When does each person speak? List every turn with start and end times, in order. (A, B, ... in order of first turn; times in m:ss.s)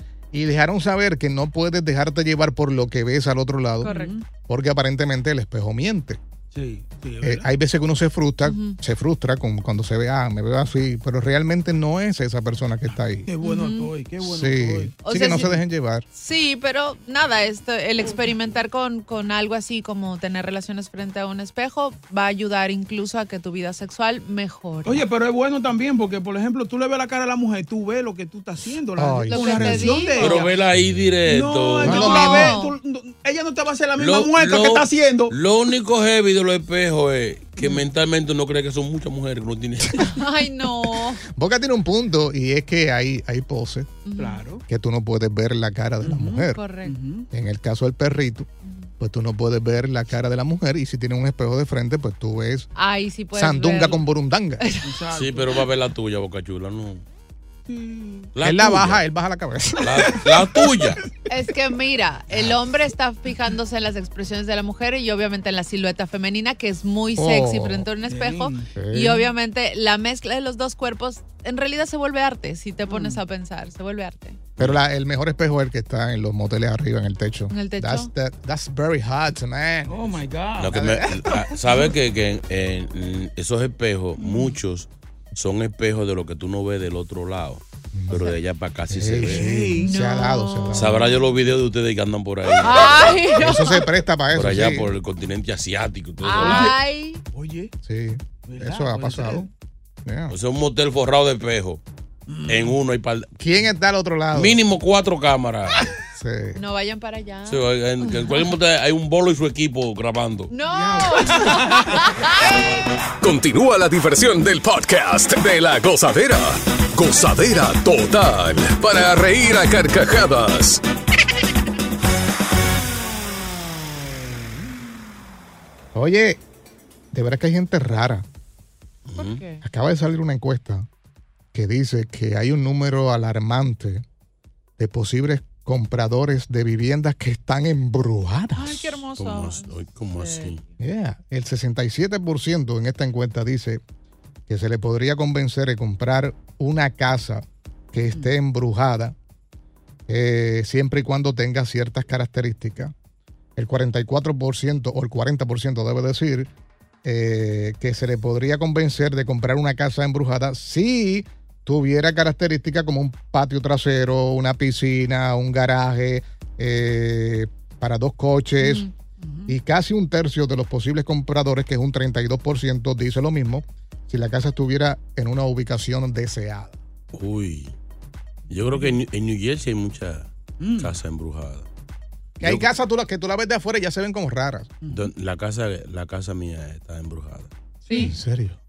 0:00.3-0:04.0 A
0:03.8-0:04.2 B
0:03.9-0:04.2 C
0:04.5-0:06.2 A
0:06.5-0:07.5 C
0:07.2-0:13.3 A
0:08.4-0:08.8 B
0:13.2-0:15.6 C
0:13.4-0:13.9 B
0:14.2-0:16.0 A
0:15.0-0:15.5 B
0:16.1-0:25.1 B
0:24.8-0:30.5 C
0:29.0-0:30.1 A
0:29.3-0:30.5 B
0:30.2-0:32.4 D
0:31.3-0:35.3 C
0:31.8-0:32.5 A
0:31.9-0:32.8 B
0:34.0-0:40.1 D
0:40.0-0:41.2 B
0:41.3-0:44.0 A
0:44.0-0:44.5 B
0:44.2-0:44.6 C
0:44.7-0:46.6 A
0:46.0-0:47.3 C
0:46.4-0:47.0 B
0:47.3-0:48.5 A
0:48.6-0:48.9 B
0:49.0-0:52.7 A
0:52.8-0:54.0 B
0:53.3-0:54.6 A
0:54.6-0:55.0 B
0:54.8-0:55.6 C
0:55.1-0:57.0 D
0:57.7-0:58.3 C
0:58.3-0:59.0 D
0:58.4-1:00.2 A
0:59.8-1:01.0 D
1:01.3-1:14.4 B
1:02.3-1:02.6 A
1:07.2-1:07.9 A
1:08.0-1:08.7 C
1:08.8-1:09.3 A
1:12.9-1:13.2 C
1:14.6-1:20.1 A
1:17.5-1:18.1 B
1:19.9-1:21.9 C
1:20.6-1:29.5 D
1:24.2-1:24.5 C
1:27.9-1:28.2 A
1:28.9-1:31.1 A
1:29.2-1:29.9 C
1:29.8-1:31.0 B
1:30.7-1:33.3 D
1:32.5-1:33.9 B
1:33.4-1:34.9 A
1:34.3-1:36.8 D
1:36.2-1:37.2 B
1:36.4-1:36.7 C
1:37.3-1:37.7 C
1:37.8-1:39.5 A
1:38.4-1:39.5 C
1:40.1-1:40.3 A
1:40.3-1:41.8 D
1:42.3-1:42.8 C
1:42.5-1:43.3 D
1:43.4-1:44.6 A
1:44.3-1:45.9 D
1:46.2-1:46.6 A
1:46.6-1:48.2 B
1:47.5-1:50.5 D
1:50.5-1:52.8 B
1:50.7-1:52.0 C
1:53.2-2:00.8 E
2:06.0-2:06.4 A
2:07.1-2:08.2 A
2:09.1-2:09.4 D
2:09.2-2:09.6 B
2:09.6-2:10.9 A
2:11.5-2:14.0 A
2:14.8-2:19.0 A
2:18.6-2:20.6 B
2:19.2-2:20.6 D
2:20.8-2:23.8 A
2:24.5-2:29.2 A
2:30.1-2:32.9 A
2:33.6-2:36.5 A
2:37.0-2:48.9 A
2:48.6-2:48.9 B
2:49.2-2:49.6 C
2:49.5-2:56.8 A
2:57.1-2:57.7 D
2:58.5-3:01.7 D
3:00.6-3:01.0 C
3:02.4-3:04.7 A
3:02.4-3:02.7 D
3:04.8-3:05.1 C
3:04.9-3:07.5 D
3:07.9-3:08.2 B
3:08.0-3:08.6 A